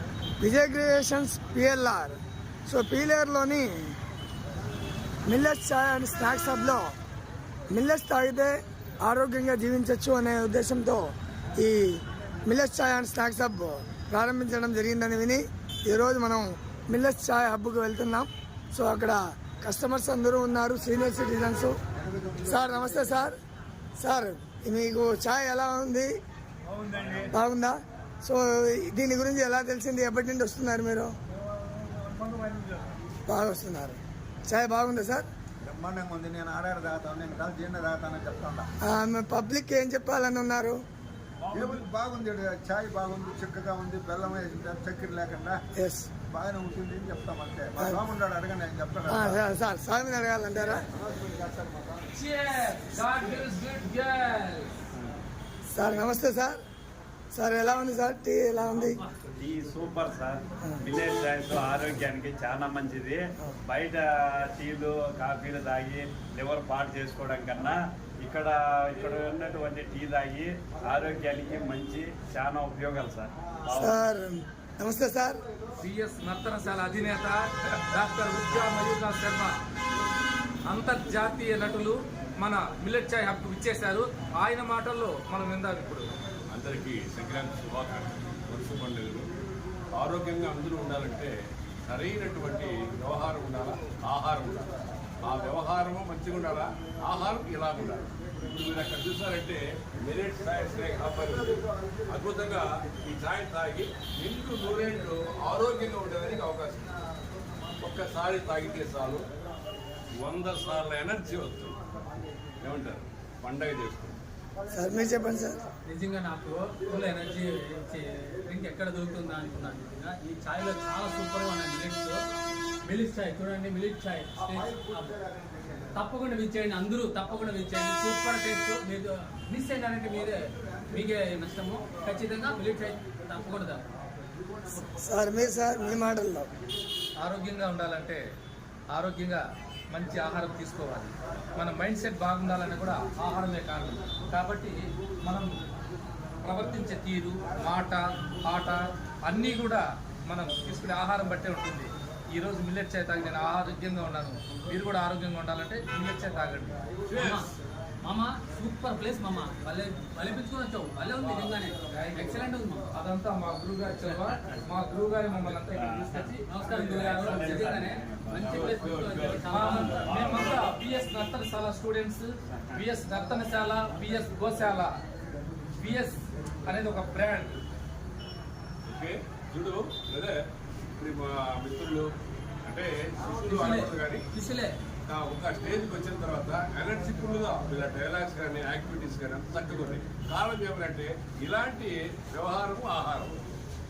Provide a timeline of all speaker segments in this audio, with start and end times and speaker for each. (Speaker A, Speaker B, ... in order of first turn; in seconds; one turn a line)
Speaker A: 0.4-2.2
Speaker A: 2.7-4.0
Speaker A: 5.2-6.9
Speaker A: 7.7-21.8
Speaker B: 21.9-23.2
Speaker A: 22.4-23.4
Speaker A: 24.0-26.2
Speaker B: 26.9-27.3
Speaker A: 27.3-31.1
Speaker A: 33.3-35.3
Speaker B: 35.6-38.7
Speaker A: 38.8-40.8
Speaker C: 41.5-41.8
Speaker B: 41.5-45.6
Speaker A: 45.8-46.1
Speaker B: 46.3-49.4
Speaker A: 49.1-50.9
Speaker B: 51.1-52.0
Speaker D: 52.1-54.8
Speaker A: 55.7-56.6
Speaker A: 57.3-59.0
Speaker E: 59.4-74.0
Speaker A: 73.7-75.4
Speaker D: 75.8-79.5
Speaker D: 80.7-86.0
Speaker C: 86.5-89.3
Speaker C: 89.9-91.3
Speaker C: 91.9-94.7
Speaker C: 95.2-107.0
Speaker C: 107.8-109.2
Speaker C: 110.2-111.8
Speaker C: 112.6-114.2
Speaker A: 114.7-115.6
Speaker F: 115.8-122.2
Speaker F: 122.8-125.2
Speaker B: 125.3-125.9
Speaker F: 125.9-133.8
Speaker A: 134.8-136.5
Speaker D: 137.2-138.2
Speaker D: 138.9-139.4
Speaker D: 139.9-145.5
Speaker D: 146.4-156.8
Speaker C: 157.1-157.5
Speaker F: 157.1-157.5
Speaker F: 158.0-162.9
Speaker D: 161.3-167.6
Speaker E: 166.0-166.2
Speaker F: 166.4-170.2
Speaker E: 167.2-169.4
Speaker C: 168.3-170.7
Speaker D: 169.5-174.9
Speaker D: 175.8-177.6
Speaker C: 178.8-180.4
Speaker C: 181.0-182.1
Speaker C: 182.6-184.2
Speaker F: 183.4-184.8
Speaker C: 185.1-193.3